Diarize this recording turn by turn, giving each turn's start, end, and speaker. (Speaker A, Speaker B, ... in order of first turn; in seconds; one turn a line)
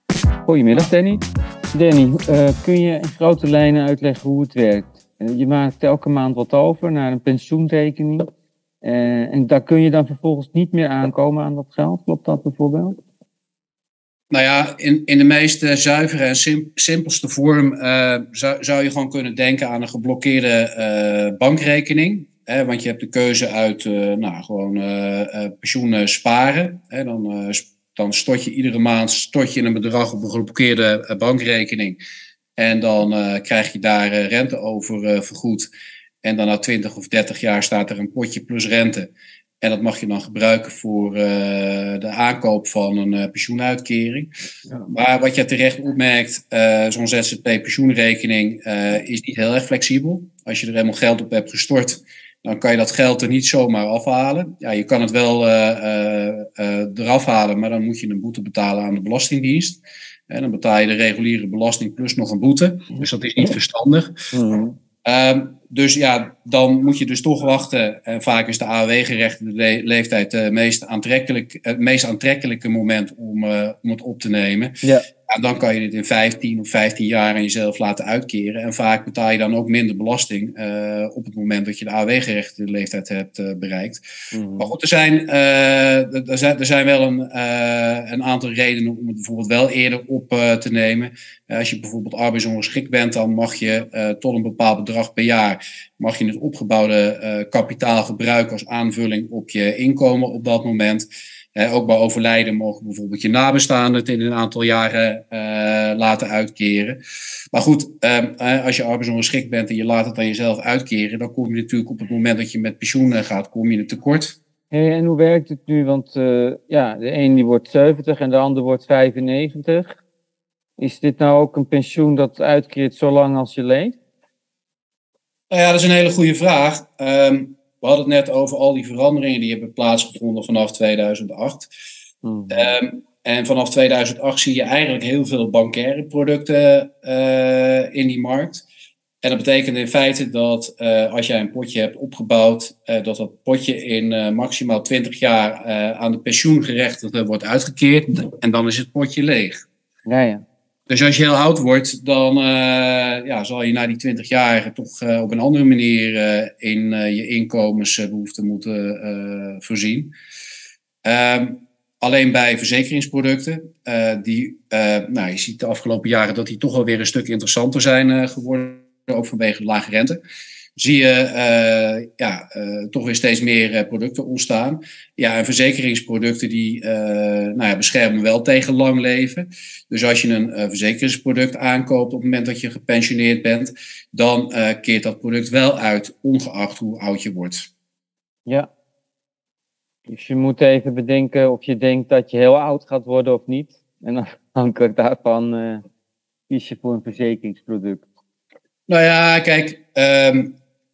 Speaker A: 0.5-8.3
Speaker A: 8.8-13.0
Speaker B: 14.3-32.0
Speaker B: 32.6-35.7
Speaker B: 36.2-44.3
Speaker B: 44.9-64.2
Speaker A: 64.3-64.8
Speaker B: 65.0-74.8
Speaker B: 75.3-84.0
Speaker A: 84.3-84.7
Speaker B: 84.6-107.0
Speaker B: 107.5-114.4
Speaker A: 114.7-120.0
Speaker A: 120.8-124.0
Speaker B: 125.5-131.7
Speaker A: 132.2-132.7
Speaker B: 132.5-138.7
Speaker B: 139.2-149.6
Speaker A: 150.1-150.4
Speaker B: 150.9-160.2
Speaker B: 161.0-170.2
Speaker B: 170.8-187.7
Speaker A: 190.1-195.8
Speaker A: 196.5-198.1
Speaker B: 198.9-200.6